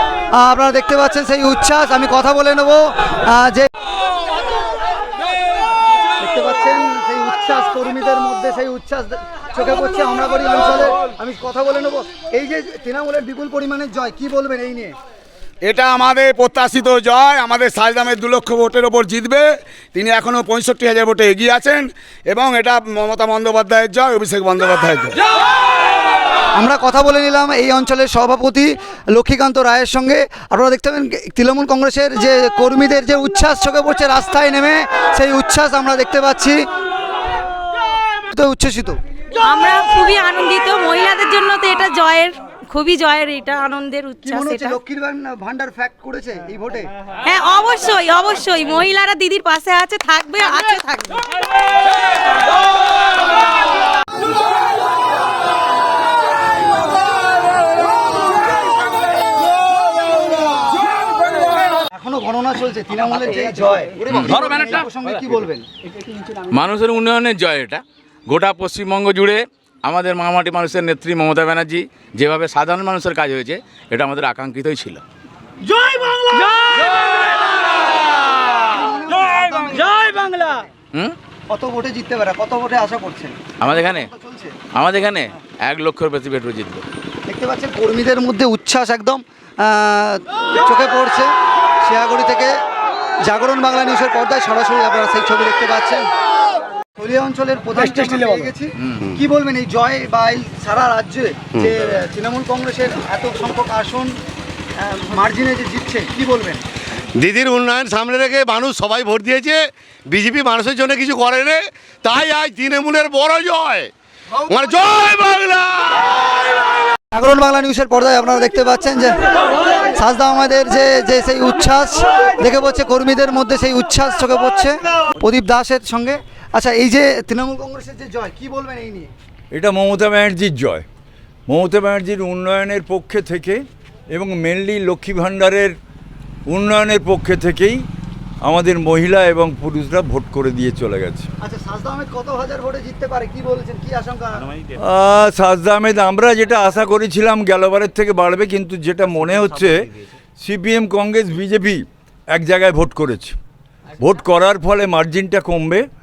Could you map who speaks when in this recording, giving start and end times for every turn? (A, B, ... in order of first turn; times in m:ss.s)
0:00.4-0:03.7 A
0:06.2-0:14.9 A
0:15.6-0:25.2 B
0:26.6-0:36.6 A
0:38.3-0:39.0 A
0:39.4-0:44.8 C
0:44.2-0:46.9 A
0:47.2-0:51.2 C
1:01.9-1:05.7 A
1:04.0-1:04.9 D
1:06.5-1:15.0 D
1:18.5-1:20.7 A
1:21.5-1:24.6 A
1:23.6-1:24.1 D
1:24.7-1:26.8 D
1:27.3-1:32.5 A
1:33.2-1:36.1 A
1:37.0-1:44.1 A
1:44.8-1:46.6 A
1:47.2-1:49.6 E
1:50.1-1:53.9 E
1:54.5-1:55.9 E
1:57.1-1:59.2 A
1:59.9-2:09.1 A
2:09.5-2:10.8 F
2:11.5-2:15.7 F
2:16.5-2:17.8 F
2:18.4-2:21.3 F
2:21.4-2:24.5 A
2:24.7-2:33.4 F
2:34.0-2:35.8 F